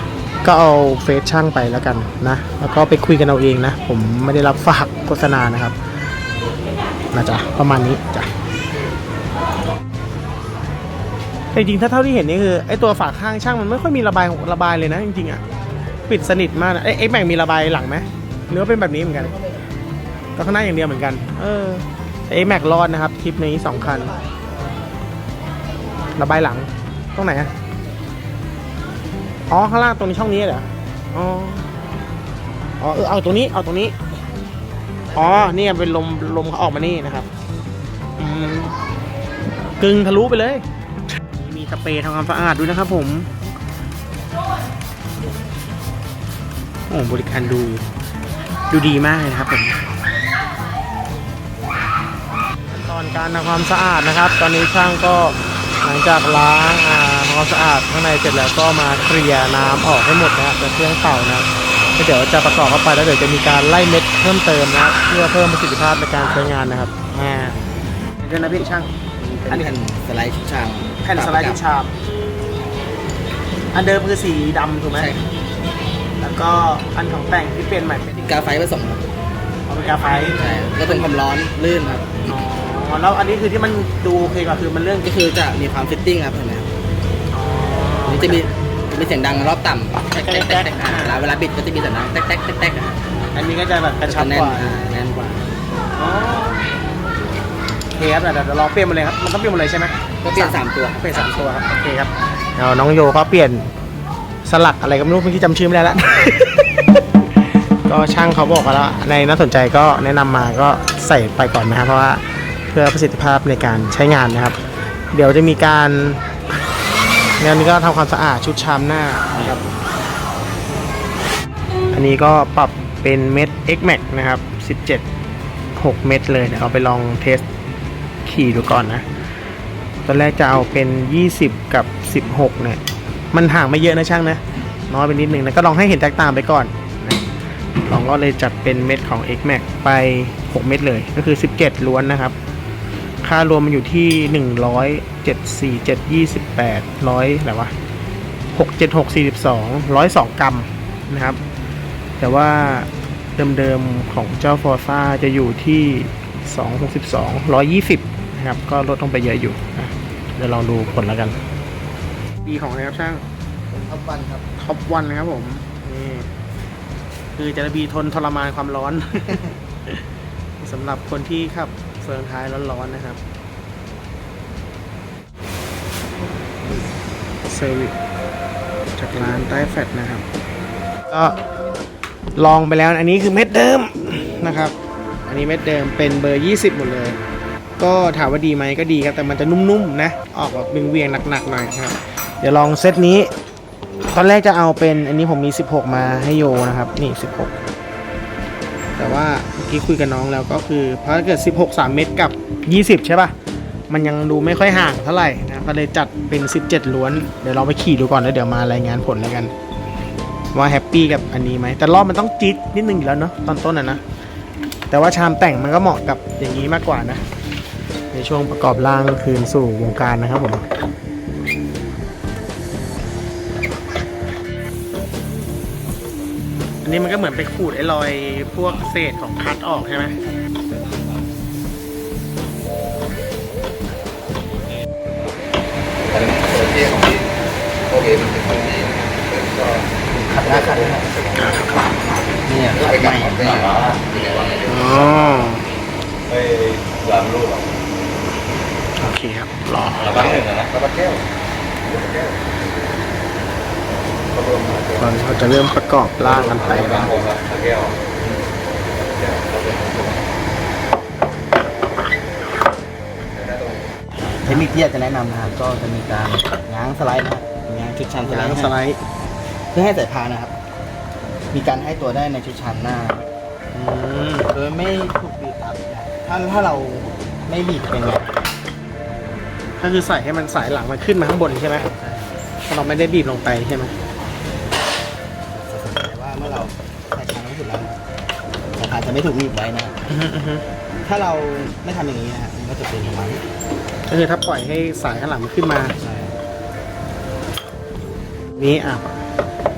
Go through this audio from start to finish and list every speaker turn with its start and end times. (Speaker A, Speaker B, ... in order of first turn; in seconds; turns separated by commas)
Speaker A: 0.4-5.8, Speaker A: 7.1-8.3, Speaker A: 11.5-15.4, Speaker A: 16.1-19.4, Speaker A: 20.4-24.2, Speaker A: 26.2-27.5, Speaker A: 29.5-31.7, Speaker A: 32.8-34.0, Speaker A: 35.1-37.3, Speaker A: 38.2-38.8, Speaker A: 39.6-40.7, Speaker A: 41.3-43.3, Speaker A: 46.9-47.8, Speaker A: 48.7-49.8, Speaker A: 52.7-67.6, Speaker A: 68.2-69.7, Speaker B: 69.5-71.6, Speaker A: 71.0-71.9, Speaker A: 73.7-75.1, Speaker B: 74.9-75.2, Speaker A: 76.2-78.2, Speaker B: 78.1-79.0, Speaker A: 79.7-80.4, Speaker B: 80.0-82.2, Speaker A: 82.3-85.1, Speaker B: 85.0-86.7, Speaker A: 87.3-88.4, Speaker B: 88.1-93.0, Speaker A: 90.2-91.2, Speaker A: 93.3-94.8, Speaker B: 94.1-95.4, Speaker A: 96.0-96.6, Speaker A: 97.9-103.7, Speaker B: 100.2-101.3, Speaker A: 104.4-107.0, Speaker A: 107.9-114.6, Speaker A: 115.1-116.3, Speaker A: 117.4-119.6, Speaker A: 121.9-125.0, Speaker A: 125.7-127.5, Speaker A: 128.2-129.1, Speaker A: 130.1-132.8, Speaker A: 133.3-137.3, Speaker A: 137.9-142.3, Speaker A: 143.2-147.7, Speaker A: 148.5-151.4, Speaker A: 152.2-161.4, Speaker A: 162.4-163.2, Speaker B: 163.7-164.5, Speaker A: 164.6-166.3, Speaker A: 167.4-169.4, Speaker A: 170.6-173.2, Speaker A: 177.5-178.0, Speaker A: 179.0-180.2, Speaker A: 181.1-181.4, Speaker A: 182.4-187.2, Speaker A: 187.8-193.3, Speaker A: 194.1-197.6, Speaker A: 199.0-203.3, Speaker A: 203.9-209.5, Speaker A: 210.5-214.0, Speaker A: 214.9-217.2, Speaker A: 218.1-220.7, Speaker A: 226.8-230.2, Speaker C: 236.2-237.2, Speaker C: 237.9-238.9, Speaker B: 240.1-241.2, Speaker A: 241.3-241.9, Speaker B: 242.5-243.9, Speaker C: 244.0-244.6, Speaker A: 244.7-245.7, Speaker C: 246.9-247.6, Speaker A: 249.0-250.5, Speaker C: 250.5-251.2, Speaker C: 254.4-254.9, Speaker A: 255.0-257.3, Speaker C: 257.2-257.9, Speaker C: 259.3-260.1, Speaker B: 264.3-268.8, Speaker A: 268.2-269.0, Speaker B: 269.7-270.5, Speaker B: 271.5-273.2, Speaker A: 273.7-274.5, Speaker B: 274.5-278.3, Speaker A: 279.8-281.9, Speaker B: 281.7-282.4, Speaker A: 282.7-283.9, Speaker B: 285.5-288.0, Speaker B: 288.8-290.0, Speaker A: 290.1-290.6, Speaker B: 291.0-293.4, Speaker A: 294.1-295.9, Speaker B: 296.0-296.4, Speaker A: 298.6-299.2